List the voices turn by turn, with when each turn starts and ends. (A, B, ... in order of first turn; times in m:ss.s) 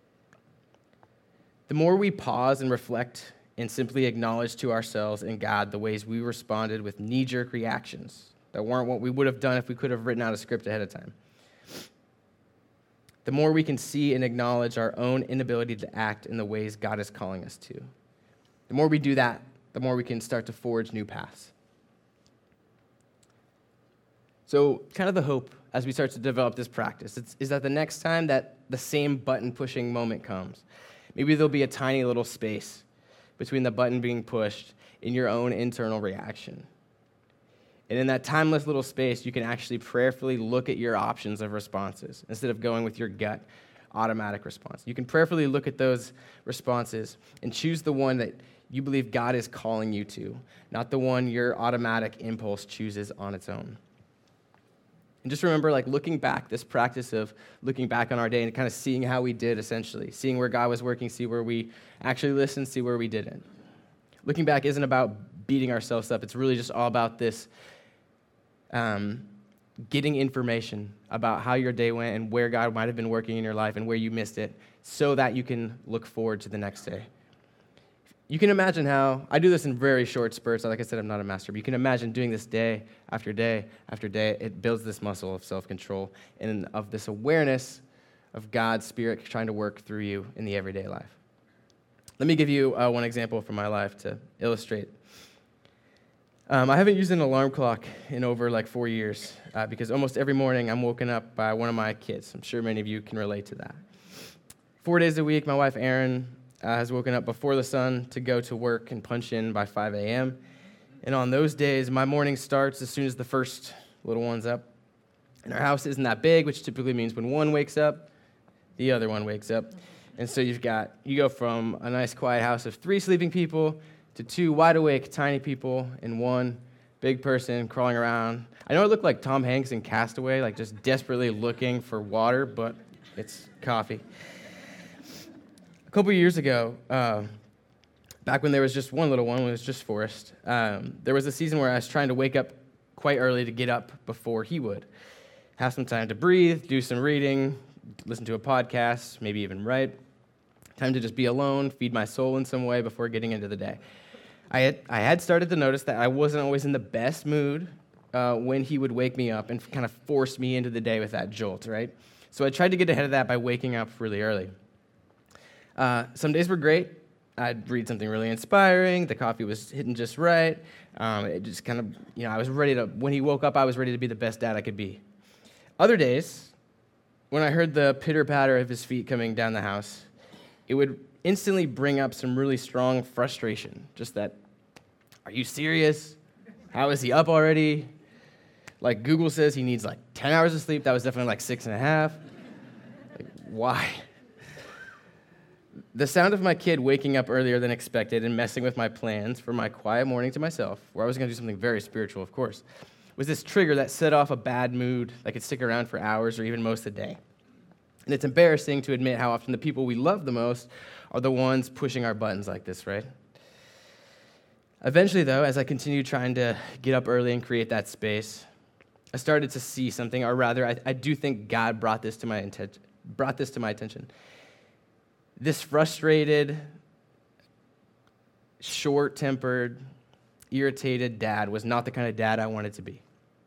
0:01.7-0:11.1 A
0:13.2-0:17.9 A
0:18.7-0:21.5 A
0:24.5-0:32.8 A
0:33.4-0:36.7 A
0:37.9-0:53.8 A
0:55.2-1:03.4 A
1:04.2-1:07.5 A
1:08.7-1:09.3 A
1:09.9-1:17.1 A
1:18.3-1:31.2 A
1:32.2-1:35.0 A
1:36.5-1:43.8 A
1:44.8-1:50.4 A
1:51.0-1:54.7 A
1:55.4-1:58.1 A
1:58.8-2:14.0 A
2:15.9-2:17.3 A
2:18.2-2:24.9 A
2:25.6-2:29.9 A
2:30.8-2:33.8 A
2:34.5-2:44.5 A
2:45.8-2:55.0 A
2:55.8-2:56.5 A
2:57.3-3:00.1 A
3:00.7-3:04.4 A
3:05.2-3:06.2 A
3:06.7-3:07.9 A
3:08.8-3:12.2 A
3:13.1-3:14.0 A
3:15.9-3:22.6 A
3:23.2-3:27.2 A
3:28.0-3:33.1 A
3:34.8-3:38.4 A
3:39.1-3:44.1 A
3:45.4-3:46.6 A
3:48.6-3:49.8 A
3:50.5-3:53.0 A